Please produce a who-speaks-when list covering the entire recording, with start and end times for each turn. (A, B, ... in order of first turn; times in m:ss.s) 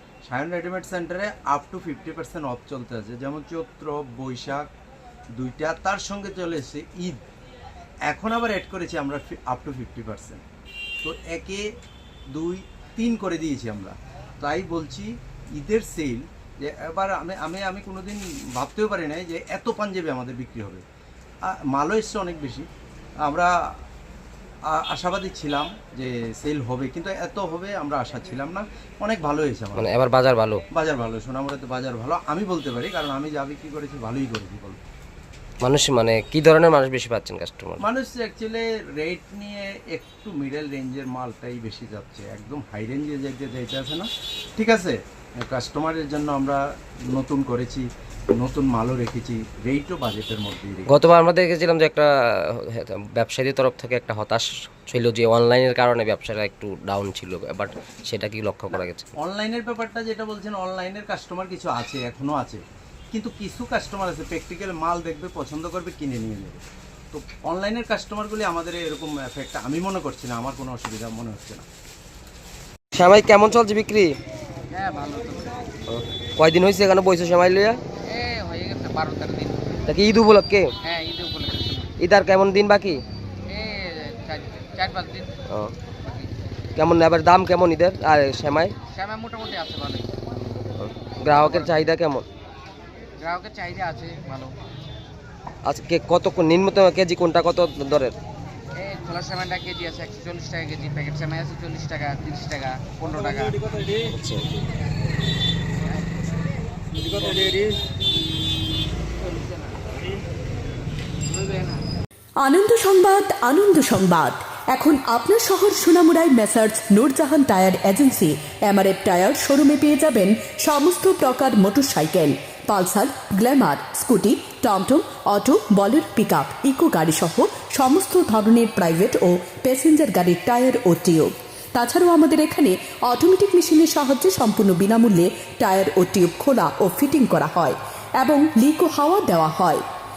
0:00.2-0:04.7 A
0:05.4-0:07.2 A
0:08.1-0:10.4 A
0:11.0-0:11.6 A
0:12.3-0:20.8 A
0:21.5-0:22.7 A
0:23.2-0:23.5 A
0:24.7-0:29.9 A
0:29.8-0:30.6 B
0:30.7-0:34.8 A
0:35.6-0:37.8 B
0:37.8-0:50.9 A
0:50.9-0:59.1 B
0:59.2-1:06.6 A
1:07.1-1:11.7 A
1:13.0-1:14.1 B
1:14.7-1:15.6 C
1:15.9-1:17.8 B
1:18.1-1:19.8 C
1:19.9-1:20.7 B
1:20.8-1:21.9 C
1:22.0-1:23.0 B
1:23.5-1:25.3 C
1:25.5-1:25.7 B
1:26.0-1:26.3 C
1:26.8-1:28.8 B
1:28.9-1:30.2 C
1:30.8-1:32.2 B
1:31.3-1:31.7 C
1:33.2-1:34.5 C
1:35.6-1:38.2 B
1:38.8-1:44.0 C
1:44.1-1:44.5 B
1:45.8-1:47.7 C
1:49.2-1:49.9 C
1:51.3-1:51.8 C
1:52.4-2:19.8 D